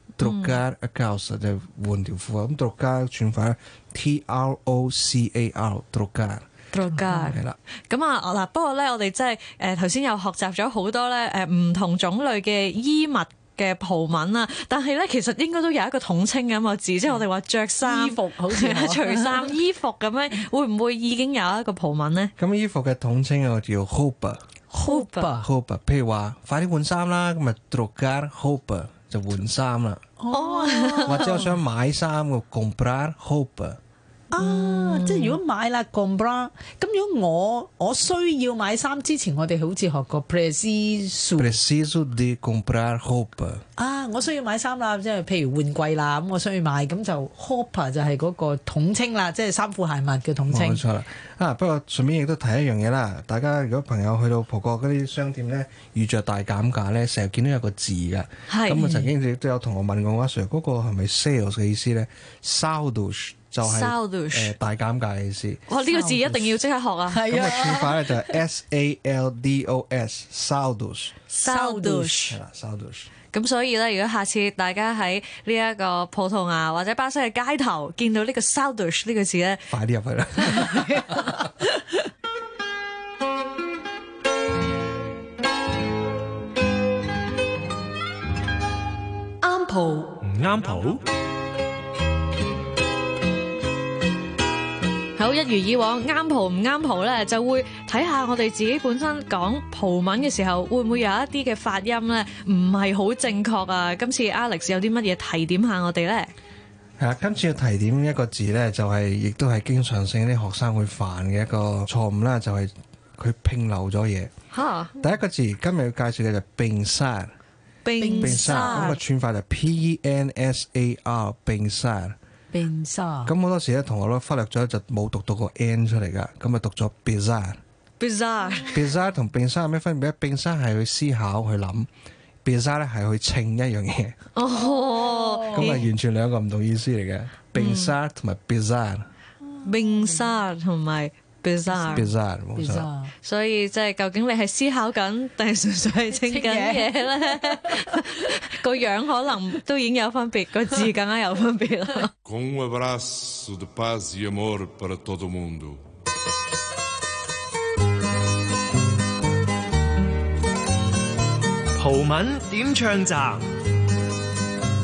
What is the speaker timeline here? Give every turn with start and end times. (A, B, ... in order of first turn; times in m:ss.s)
0:00.2-0:06.5 A
0:00.2-0:00.6 B
0:06.7-0:22.3 B
0:07.1-0:07.6 A
0:07.1-0:07.4 C
0:17.8-0:19.5 C
0:22.4-0:24.4 A
0:24.7-0:25.5 C
0:24.8-0:25.3 B
0:25.4-0:30.0 A
0:30.2-0:31.5 C
0:30.3-0:31.4 B
0:31.0-0:33.8 A
0:34.3-0:41.6 C
0:34.4-0:35.4 B
0:41.4-0:43.6 A
0:43.8-0:50.8 C
0:50.5-1:05.7 A
0:58.5-0:58.9 B
0:58.8-0:59.1 C
1:03.6-1:04.5 B
1:05.7-1:07.4 B
1:05.8-1:06.6 C
1:07.1-1:08.1 C
1:07.3-1:11.2 A
1:11.3-1:12.4 B
1:11.4-1:12.4 C
1:12.3-1:13.1 A
1:13.3-1:19.7 B
1:19.7-1:21.4 A
1:20.4-1:21.1 B
1:30.2-1:31.0 D
1:35.2-1:46.3 B
1:47.0-1:54.3 A
1:54.5-1:54.9 B
1:55.0-1:57.3 A
1:57.8-1:59.0 B
1:58.0-1:59.0 C
1:58.2-2:02.2 A
2:02.5-2:03.3 C
2:03.3-2:07.6 A
2:08.0-2:08.8 B
2:08.7-2:11.9 A
2:12.4-2:14.2 A
2:14.4-2:15.8 B
2:14.6-2:15.8 C
2:15.5-2:19.1 A
2:17.6-2:18.0 B
2:19.6-2:20.3 C
2:19.6-2:22.1 B
2:21.7-2:23.1 C
2:21.9-2:22.9 A
2:23.2-2:32.1 B
2:26.1-2:28.4 C
2:32.2-2:35.8 E
2:41.8-2:43.5 D